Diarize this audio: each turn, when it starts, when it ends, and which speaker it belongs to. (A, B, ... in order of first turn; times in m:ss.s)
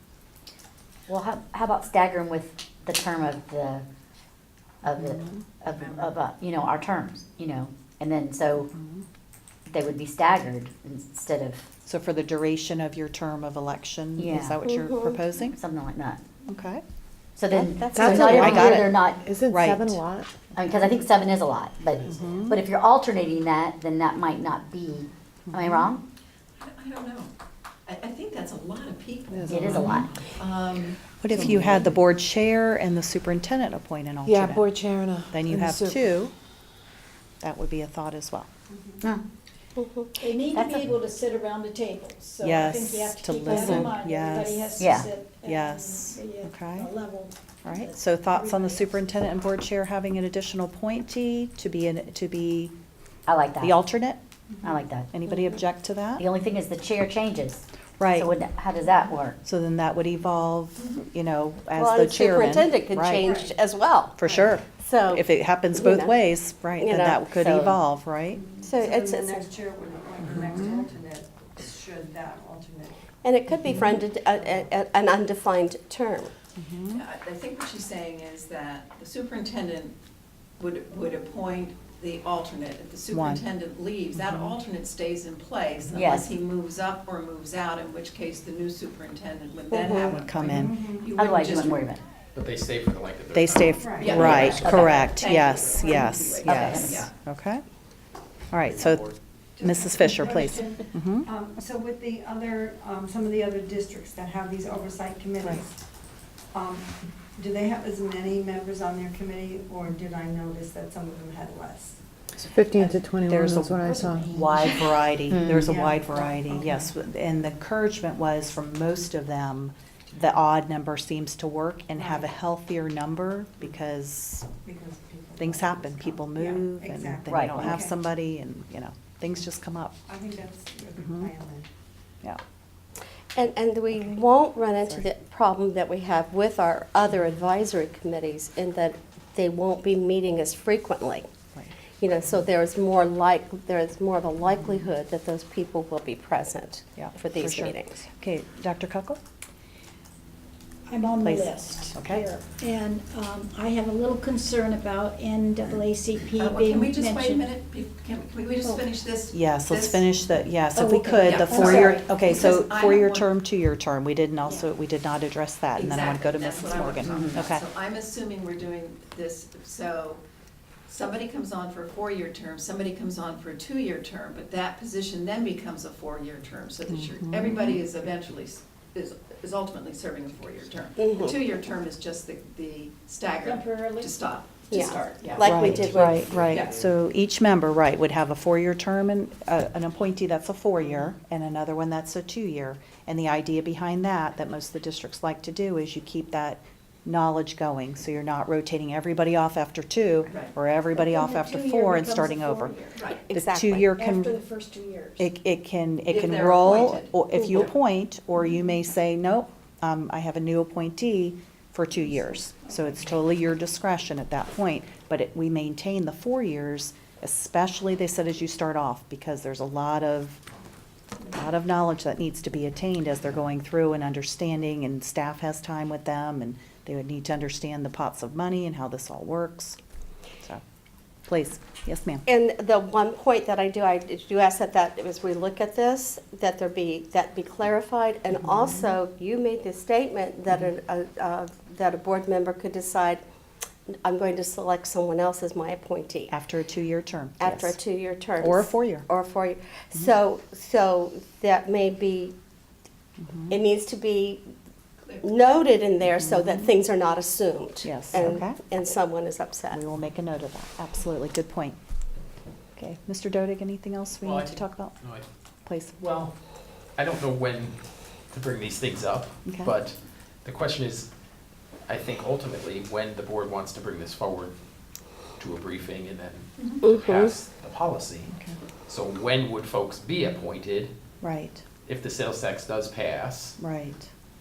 0:01.1-0:03.8 A
0:04.8-0:08.7 A
0:05.0-0:05.4 B
0:05.7-0:06.1 C
0:08.7-0:09.0 B
0:09.7-0:11.6 A
0:11.8-0:15.6 B
0:14.2-0:14.6 A
0:14.6-0:15.2 D
0:15.6-0:16.2 A
0:16.4-0:16.8 B
0:17.4-0:19.2 A
0:17.5-0:20.3 E
0:18.0-0:18.8 B
0:19.4-0:20.0 B
0:20.5-0:26.0 A
0:22.0-0:22.3 F
0:22.1-0:22.5 B
0:26.6-0:27.3 G
0:27.9-0:31.1 G
0:29.3-0:30.0 E
0:29.5-0:30.1 A
0:31.2-0:34.7 B
0:31.3-0:31.8 E
0:34.2-0:36.0 E
0:35.3-0:36.3 B
0:37.4-0:38.5 B
0:38.7-0:39.0 C
0:39.8-0:40.1 D
0:40.2-0:48.9 H
0:40.5-0:40.8 A
0:42.4-0:44.8 B
0:43.5-0:43.9 D
0:44.8-0:45.1 A
0:45.4-0:46.9 B
0:47.6-0:52.7 B
0:53.3-0:53.8 A
0:53.6-0:54.2 B
0:54.6-0:55.1 A
0:55.1-0:56.2 B
0:56.2-0:59.4 A
0:58.0-0:58.3 B
0:59.4-1:03.3 B
1:01.8-1:04.2 D
1:03.2-1:03.5 C
1:04.2-1:08.4 B
1:04.2-1:04.5 C
1:04.8-1:06.2 D
1:06.8-1:07.8 D
1:08.6-1:09.4 D
1:08.8-1:13.0 C
1:10.3-1:10.8 B
1:13.2-1:16.3 D
1:13.7-1:14.7 C
1:16.6-1:17.0 B
1:16.9-1:19.9 G
1:20.6-1:31.8 G
1:23.1-1:23.4 B
1:24.2-1:24.6 B
1:25.9-1:26.3 A
1:29.7-1:30.1 D
1:30.0-1:30.7 B
1:30.4-1:31.1 C
1:31.1-1:32.0 A
1:32.3-1:35.1 F
1:33.3-1:37.6 B
1:33.8-1:34.3 C
1:34.0-1:37.1 G
1:34.1-1:34.9 A
1:36.4-1:37.0 A
1:38.5-1:41.3 B
1:38.6-1:39.2 F
1:39.6-1:45.7 C
1:46.5-1:52.0 C
1:52.4-2:04.5 B
1:52.5-1:54.7 E
1:53.8-1:54.2 C
1:53.9-1:54.9 H
1:55.3-1:55.6 A
1:55.6-1:56.9 C
2:02.0-2:02.2 C
2:04.6-2:07.9 C
2:05.4-2:10.0 B
2:07.3-2:07.7 A
2:10.1-2:11.7 C
2:11.0-2:11.3 B
2:13.3-2:21.2 D
2:22.0-2:28.0 D
2:24.6-2:24.8 B
2:27.0-2:29.2 B
2:30.9-2:37.5 H
2:31.2-2:32.3 B
2:36.4-2:40.1 G
2:39.3-2:47.6 B
2:40.8-2:42.2 H
2:41.0-2:43.3 G
2:44.4-2:44.7 H
2:45.8-2:50.2 G
2:47.0-2:47.4 A
2:50.9-3:06.8 G
2:56.9-2:57.8 B
3:01.0-3:01.3 D
3:03.4-3:04.1 H
3:04.7-3:06.2 D
3:05.4-3:22.8 B
3:05.8-3:06.9 F
3:20.2-3:20.5 G
3:20.9-3:23.0 H
3:23.0-3:24.0 D
3:23.3-3:24.4 B
3:23.9-3:25.3 H
3:25.2-3:40.4 B
3:26.1-3:27.7 G
3:27.4-3:27.6 D
3:31.9-3:33.0 H
3:41.3-3:49.8 B
3:51.3-3:52.2 B
3:52.3-4:03.2 D
3:58.4-3:58.8 B
4:04.0-4:06.3 D
4:06.3-4:07.8 B
4:07.4-4:12.3 D
4:08.4-4:09.1 B
4:13.2-4:13.6 B
4:13.5-4:14.5 D
4:15.2-4:19.8 D
4:16.2-4:16.7 B
4:17.8-4:18.6 B
4:19.7-4:21.8 B
4:22.8-4:25.0 B
4:24.2-4:25.2 F
4:25.6-4:26.0 B
4:26.0-4:26.3 F
4:27.0-4:27.8 F
4:28.3-4:31.1 F
4:29.4-4:29.7 B
4:31.9-4:34.5 F
4:35.4-4:38.3 F
4:36.8-4:37.4 D
4:38.3-4:38.6 B
4:38.9-4:40.9 F
4:41.2-4:41.6 B
4:41.8-4:43.6 F
4:43.6-4:44.1 B